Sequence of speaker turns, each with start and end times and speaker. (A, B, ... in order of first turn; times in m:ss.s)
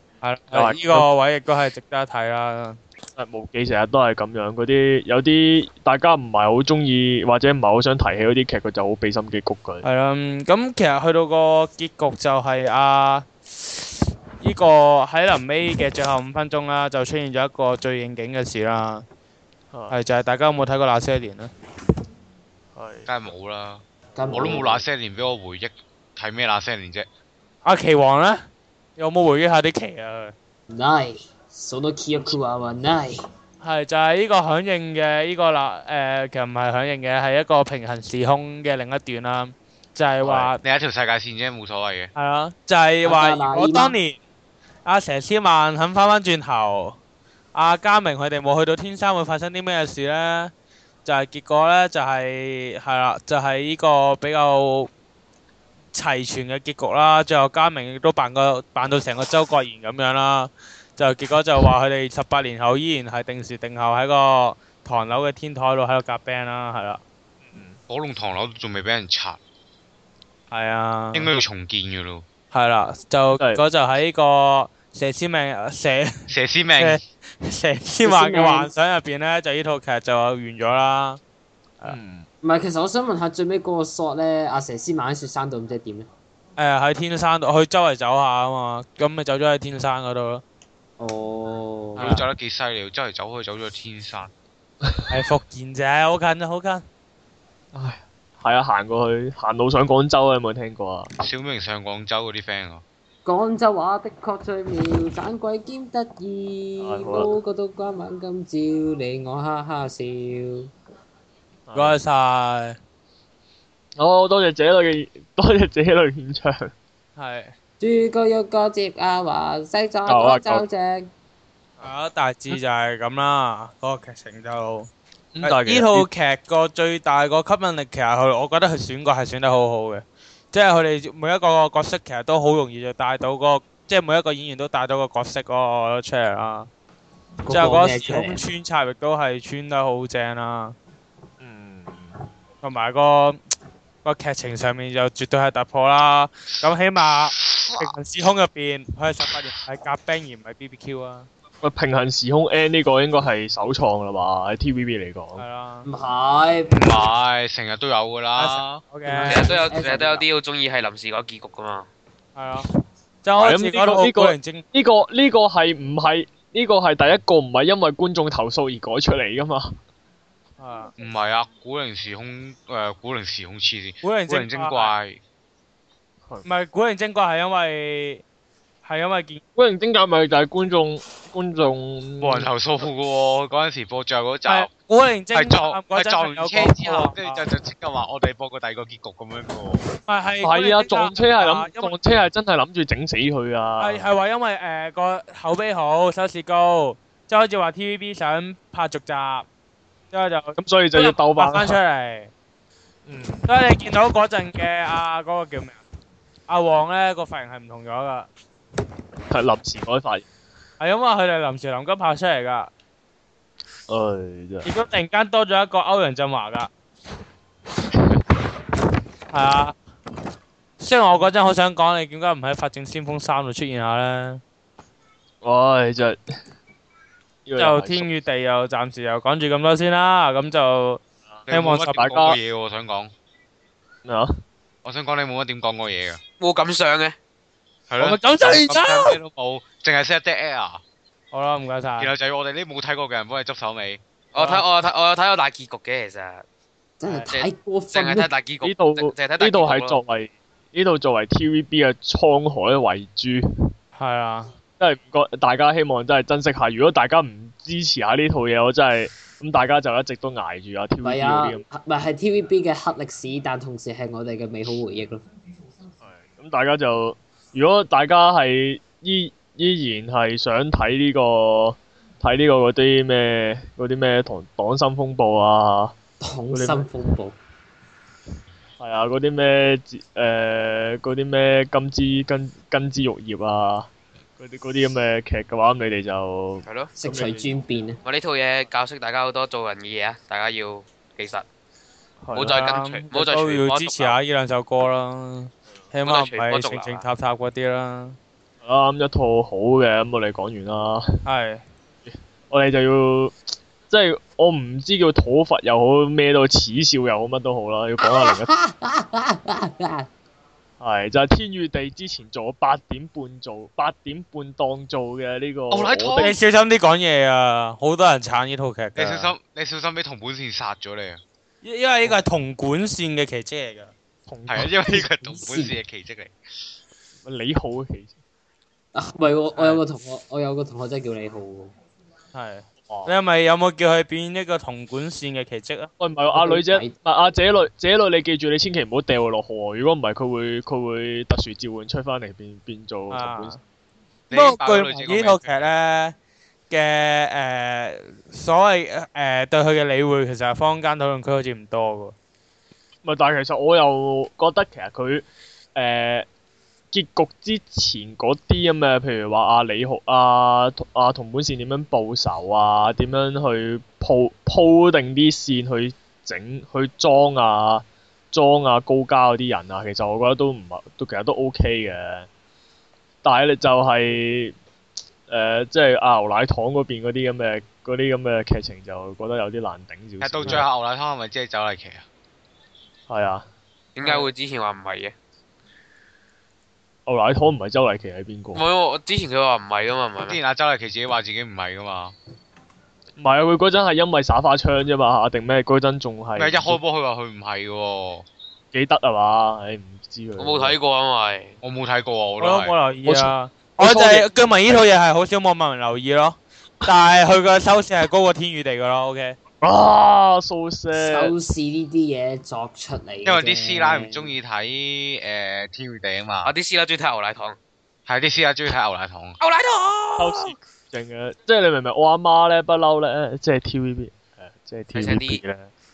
0:00.2-0:02.8 A
0:00.5-0:01.1 B
0:03.2-0:09.8 B
0:09.8-0:19.0 A
0:19.7-0:20.0 B
0:19.9-0:21.5 A
0:22.8-0:23.1 B
0:23.1-0:27.1 C
0:24.2-0:24.8 D
0:24.3-0:24.6 B
0:27.6-0:30.3 A
0:30.7-0:33.2 D
0:33.6-0:40.6 A
0:40.2-0:40.5 B
0:40.6-0:42.1 C
0:42.2-0:44.2 A
0:43.0-0:44.0 D
0:44.8-0:47.0 A
0:47.5-0:50.5 A
0:51.0-0:54.9 A
0:55.9-1:07.0 A
1:07.5-1:07.8 B
1:07.9-1:09.4 C
1:10.5-1:11.3 A
1:11.1-1:12.2 C
1:12.5-1:21.2 A
1:16.3-1:17.0 C
1:18.0-1:18.7 D
1:21.8-1:22.3 B
1:22.4-1:26.1 D
1:26.6-1:30.4 A
1:31.0-1:32.1 D
1:32.0-1:32.3 A
1:32.0-1:34.3 C
1:35.1-1:36.8 A
1:37.7-1:41.1 B
1:41.2-1:42.8 C
1:43.2-1:50.7 D
1:46.8-1:47.3 B
1:51.7-1:52.0 B
1:51.7-1:52.8 A
1:54.0-1:56.7 B
1:57.2-1:57.6 A
1:57.8-2:01.1 D
2:00.1-2:00.6 B
2:01.8-2:04.9 A
2:05.4-2:06.1 B
2:05.4-2:16.7 A
2:17.4-2:18.4 D
2:17.5-2:20.8 A
2:21.4-2:22.1 B
2:22.6-2:23.4 A
2:24.0-2:31.3 A
2:27.4-2:27.9 C
2:31.6-2:35.4 B
2:35.4-2:35.9 A
2:35.8-2:36.8 D
2:36.7-2:38.8 C
2:38.4-2:39.6 A
2:39.1-2:40.3 D
2:39.2-2:41.9 E
2:42.4-2:42.7 A
2:43.2-2:44.6 A
2:43.4-2:49.8 B
2:50.6-2:50.9 A
2:51.0-2:55.2 C
2:54.0-2:54.9 A
2:56.4-2:58.2 A
2:58.8-2:59.4 A
2:59.6-3:02.5 B
3:02.2-3:04.7 C
3:04.5-3:07.4 A
3:05.3-3:09.9 C
3:10.1-3:12.0 A
3:10.4-3:14.0 B
3:13.8-3:19.5 A
3:20.1-3:22.3 A
3:20.6-3:21.8 B
3:23.1-3:23.5 B
3:23.5-3:25.8 A
3:26.5-3:28.3 A
3:29.3-3:30.3 B
3:30.8-3:32.7 A
3:33.9-3:34.7 B
3:34.6-3:36.7 A
3:37.9-3:38.2 B
3:39.3-3:39.8 A
3:40.8-3:44.4 A
3:45.4-3:46.2 B
3:47.5-3:48.1 B
3:47.6-3:52.4 A
3:51.5-3:53.1 C
3:52.0-3:52.3 B
3:54.0-3:54.3 B
3:54.8-3:56.2 C
3:56.4-3:57.2 E
3:57.9-4:00.8 C
3:58.0-3:59.2 A
4:01.3-4:02.1 A
4:02.0-4:04.0 C
4:04.3-4:06.4 E
4:07.0-4:08.3 D
4:07.3-4:10.0 E
4:08.6-4:13.7 B
4:14.0-4:14.5 A
4:14.8-4:21.6 B
4:21.0-4:25.2 D
4:26.0-4:36.0 B
4:36.2-4:37.4 D
4:36.5-4:36.9 B
4:38.8-4:47.4 B
4:46.7-4:46.9 E
4:47.0-4:48.0 D
4:48.0-4:51.5 E
4:52.2-4:52.6 B
4:52.3-4:54.2 E
4:52.4-4:58.2 A
4:56.0-4:57.0 E
4:58.6-5:01.1 B
5:01.2-5:01.6 A
5:02.1-5:08.5 B
5:08.0-5:10.1 D
5:10.8-5:16.3 B
5:15.7-5:16.3 C
5:16.2-5:19.4 A
5:19.0-5:21.2 C
5:21.6-5:23.9 A
5:24.3-5:25.0 B
5:24.5-5:26.3 C
5:24.9-5:25.8 D
5:27.2-5:28.1 B
5:29.0-5:31.7 D
5:29.6-5:29.8 A
5:32.3-5:35.9 A
5:32.9-5:33.1 B
5:36.0-5:43.6 B
5:36.3-5:37.0 D
5:43.1-5:43.6 A
5:44.3-5:45.7 C
5:44.3-5:46.2 A
5:46.7-5:52.2 A
5:53.0-5:56.3 B
5:56.9-6:12.3 B
6:13.2-6:14.6 B
6:15.3-6:20.7 B
6:20.2-6:22.0 C
6:23.1-6:23.5 B
6:24.0-6:25.1 E
6:24.0-6:24.3 B
6:27.1-6:28.6 B
6:28.5-6:30.4 E
6:30.2-6:32.1 C
6:33.2-6:36.8 B
6:36.4-6:38.3 C
6:38.7-6:40.8 B
6:40.4-6:41.6 E
6:41.6-6:42.8 C
6:42.4-6:49.4 A
6:43.1-6:44.3 B
6:49.6-6:51.3 B
6:50.9-6:54.3 D
6:53.3-6:56.5 C
6:56.4-6:57.6 E
6:58.1-6:59.4 C
6:59.4-7:00.5 E
7:00.2-7:05.7 B
7:04.9-7:05.4 E